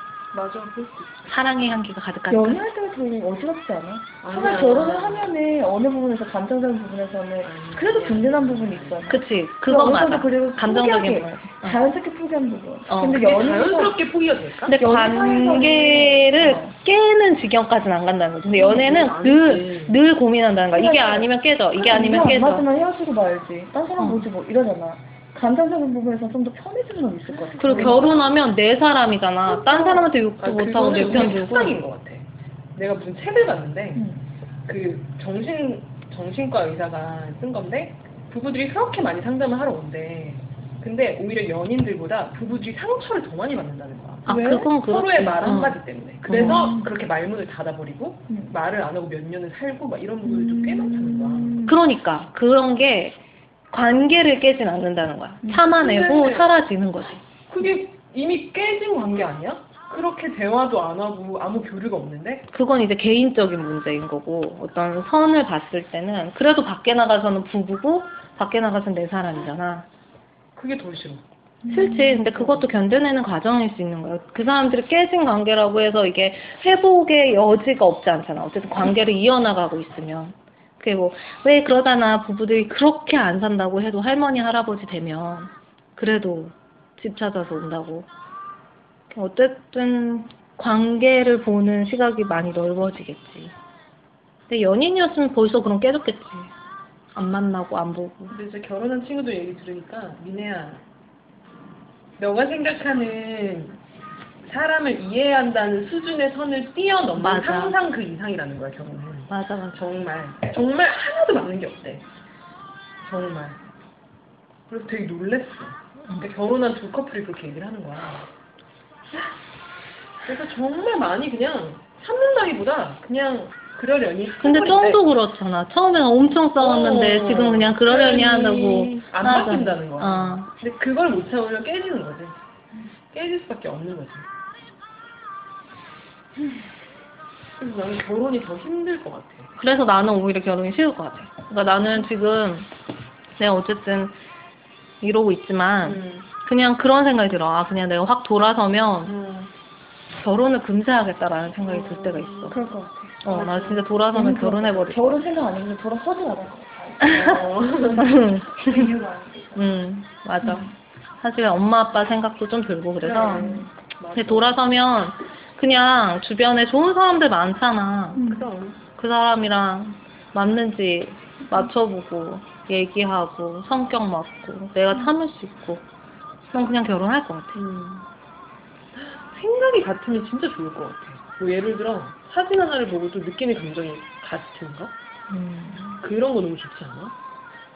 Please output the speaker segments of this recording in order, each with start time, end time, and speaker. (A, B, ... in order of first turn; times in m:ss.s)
0:00.3-0:01.3 A
0:01.3-0:02.6 B
0:02.3-0:14.0 C
0:04.2-0:05.4 A
0:07.4-0:09.2 A
0:09.1-0:11.8 B
0:12.9-0:13.2 B
0:13.0-0:14.8 A
0:14.7-0:22.7 B
0:14.8-0:16.7 C
0:18.5-0:20.0 A
0:20.7-0:28.2 C
0:24.0-0:24.3 B
0:27.3-0:28.2 A
0:27.6-0:31.8 B
0:29.5-0:34.1 A
0:33.9-0:34.2 C
0:34.6-0:51.6 A
0:44.2-0:46.7 B
0:46.3-0:46.9 C
0:48.3-0:48.5 C
0:50.2-0:51.8 C
0:51.6-0:57.2 B
0:55.6-0:56.5 A
0:57.5-1:02.5 A
1:02.5-1:09.9 B
1:10.5-1:11.3 A
1:11.6-1:12.2 C
1:11.7-1:28.1 B
1:12.3-1:12.7 A
1:29.1-1:33.5 B
1:34.5-1:36.5 B
1:37.1-1:38.3 B
1:38.3-1:40.8 A
1:42.2-1:43.8 A
1:44.4-1:52.0 A
1:47.2-1:47.8 B
1:49.3-1:49.8 B
1:53.0-1:53.6 A
1:54.7-1:58.3 A
2:00.2-2:05.0 A
2:04.4-2:10.5 B
2:06.6-2:12.4 A
2:13.1-2:14.3 A
2:17.6-2:19.5 A
2:19.6-2:22.7 B
2:23.4-2:24.2 B
2:25.0-2:29.1 B
2:25.8-2:26.3 A
2:29.0-2:29.5 A
2:30.1-2:32.6 B
2:31.6-2:34.0 A
2:33.2-2:35.2 B
2:34.1-2:39.8 C
2:37.1-2:38.2 A
2:37.9-2:38.9 B
2:39.6-2:40.7 B
2:40.4-2:40.7 C
2:41.2-2:43.6 B
2:43.0-2:44.8 A
2:43.1-2:43.7 C
2:44.1-2:48.2 B
2:48.1-2:48.5 C
2:48.2-2:48.9 A
2:48.9-2:55.9 B
2:56.5-2:57.6 B
2:57.5-2:58.1 A
2:58.9-3:04.9 A
3:05.3-3:06.0 B
3:06.0-3:07.2 A